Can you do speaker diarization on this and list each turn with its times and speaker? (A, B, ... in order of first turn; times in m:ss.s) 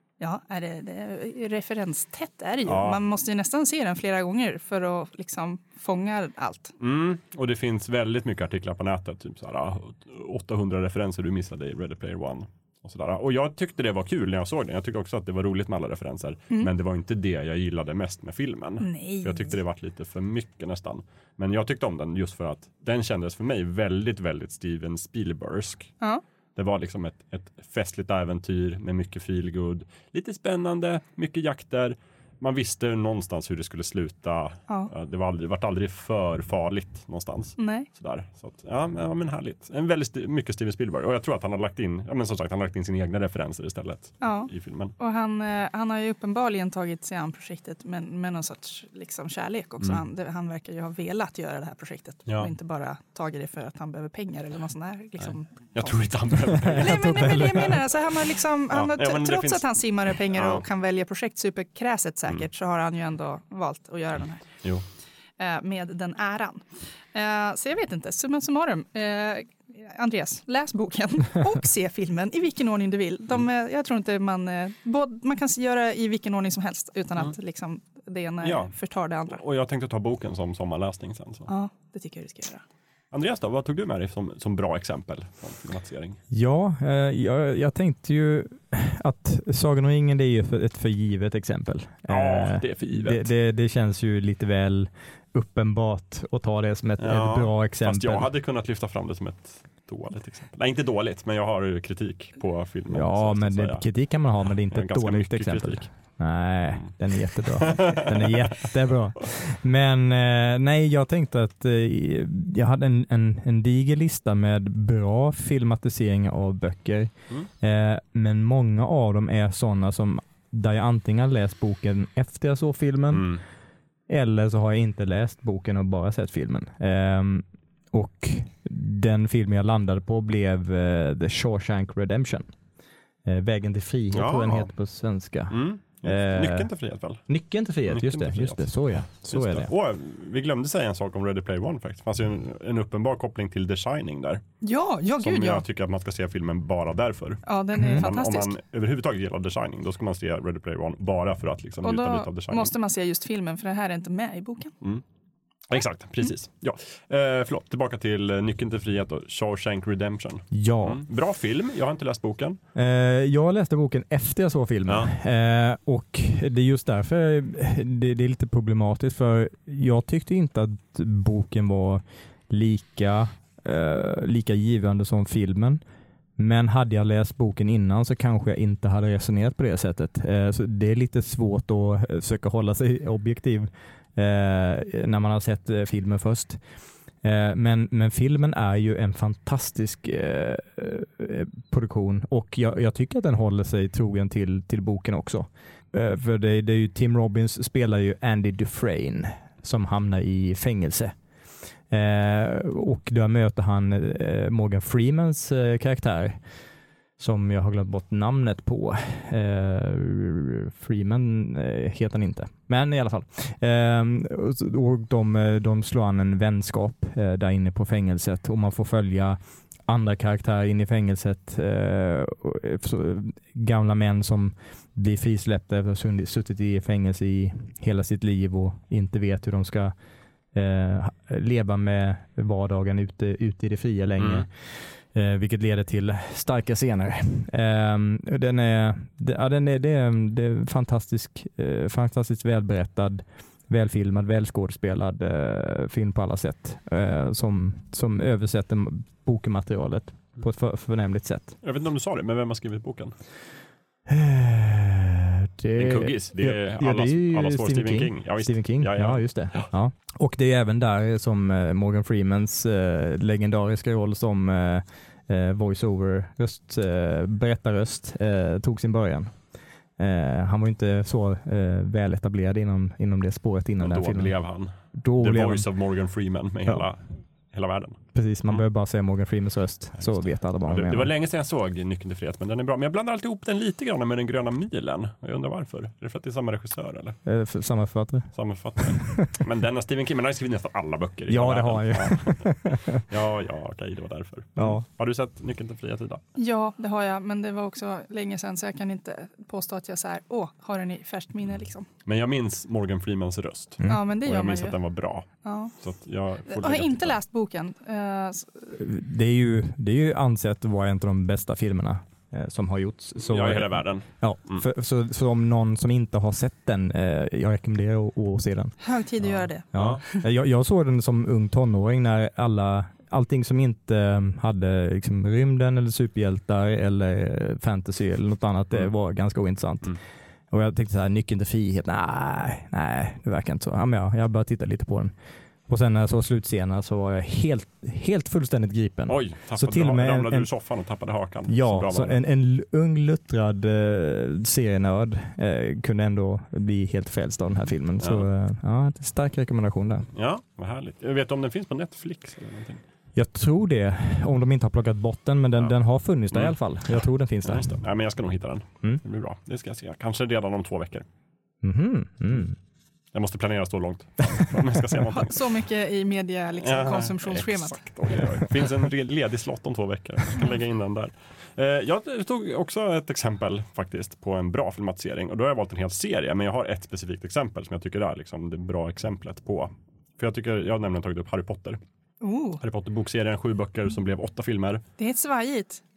0:00.2-0:06.7 A
0:02.7-0:03.0 B
0:06.8-0:25.9 B
0:18.8-0:19.5 A
0:26.6-0:44.9 B
0:37.6-0:37.9 A
0:44.2-0:56.0 A
0:52.3-0:52.5 B
0:55.7-0:57.8 B
0:56.5-0:57.7 C
0:56.6-1:04.5 A
0:58.7-1:00.6 B
1:05.4-1:19.4 A
1:18.4-1:21.5 B
1:21.5-1:22.6 A
1:23.1-1:26.2 B
1:26.3-1:38.3 C
1:32.1-1:33.3 B
1:37.0-1:46.2 B
1:42.9-2:03.3 C
1:46.7-1:48.7 B
2:03.1-2:03.4 B
2:04.1-2:12.5 C
2:13.2-2:16.7 C
2:14.1-2:14.7 B
2:15.5-2:17.3 B
2:17.3-2:19.7 C
2:17.9-2:24.4 B
2:24.6-2:25.6 A
2:25.2-2:32.7 B
2:27.4-2:28.5 A
2:27.8-2:28.1 C
2:31.8-2:34.7 A
2:35.7-2:42.6 B
2:40.5-2:41.0 C
2:42.8-2:55.8 C
2:44.9-2:45.1 B
2:56.4-3:06.6 C
3:07.2-3:21.2 C
3:21.9-3:26.5 C
3:27.2-3:50.0 C
3:50.5-4:11.6 C
3:54.2-3:54.5 B
4:11.6-4:13.2 B
4:14.1-4:29.4 C
4:15.8-4:19.7 B
4:30.0-4:34.4 C
4:33.8-4:38.6 B
4:34.9-4:35.7 C
4:38.1-4:41.1 C
4:40.0-4:47.2 B
4:47.2-4:49.3 C
4:48.3-4:56.2 B
4:51.3-4:53.0 C
4:54.6-4:54.8 C
4:56.4-5:01.9 A
5:02.1-5:07.2 B
5:03.9-5:04.8 A
5:05.4-5:05.7 A
5:06.5-5:08.8 A
5:08.7-5:18.8 C
5:13.3-5:14.7 B
5:18.8-5:20.2 A
5:19.7-5:20.0 B
5:19.7-5:30.0 C
5:30.5-5:35.1 C
5:35.7-5:40.5 C
5:39.1-5:42.2 B
5:41.5-5:50.1 C
5:48.0-5:48.3 B
5:50.1-5:52.8 B
5:53.2-5:57.8 C
5:56.3-6:01.1 B
6:01.6-6:02.6 C
6:03.1-6:05.5 B
6:04.2-6:05.0 C
6:05.1-6:07.8 A
6:06.6-6:21.8 B
6:22.2-6:22.6 A
6:22.6-6:24.8 B
6:25.0-6:25.8 A